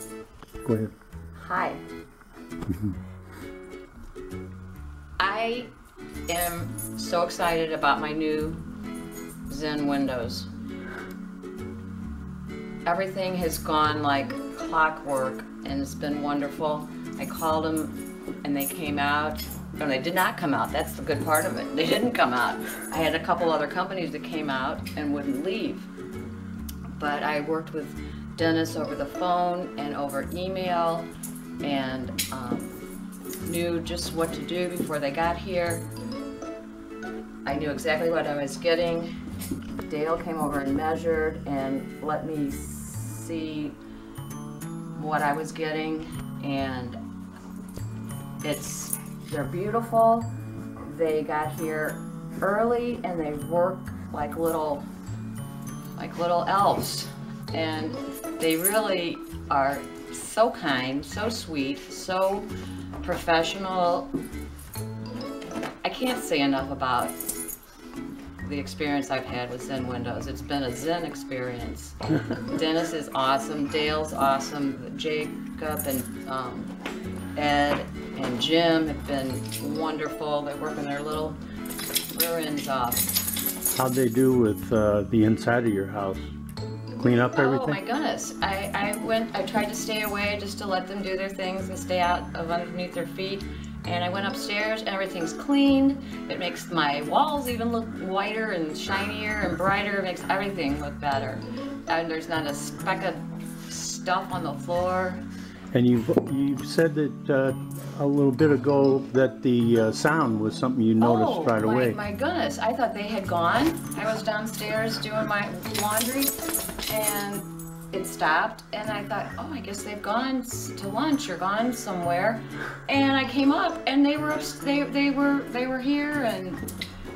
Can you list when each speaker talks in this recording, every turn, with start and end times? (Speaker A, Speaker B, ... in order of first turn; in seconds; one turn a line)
Speaker A: 0.6-0.9
Speaker B: 1.4-1.8
Speaker A: 2.7-2.9
Speaker B: 5.2-5.7
Speaker B: 6.3-8.6
Speaker B: 9.5-10.5
Speaker B: 12.8-25.9
Speaker B: 26.9-31.1
Speaker B: 31.6-32.8
Speaker B: 33.4-35.9
Speaker B: 37.4-39.1
Speaker B: 39.9-43.8
Speaker B: 45.0-47.0
Speaker B: 48.4-54.9
Speaker B: 56.0-62.5
Speaker B: 63.0-64.1
Speaker B: 65.8-67.2
Speaker B: 68.4-76.7
Speaker B: 77.3-81.4
Speaker B: 82.1-83.1
Speaker A: 83.7-86.3
Speaker A: 87.0-87.8
Speaker B: 87.3-105.2
Speaker A: 105.7-112.0
Speaker B: 111.0-116.3
Speaker B: 116.9-126.6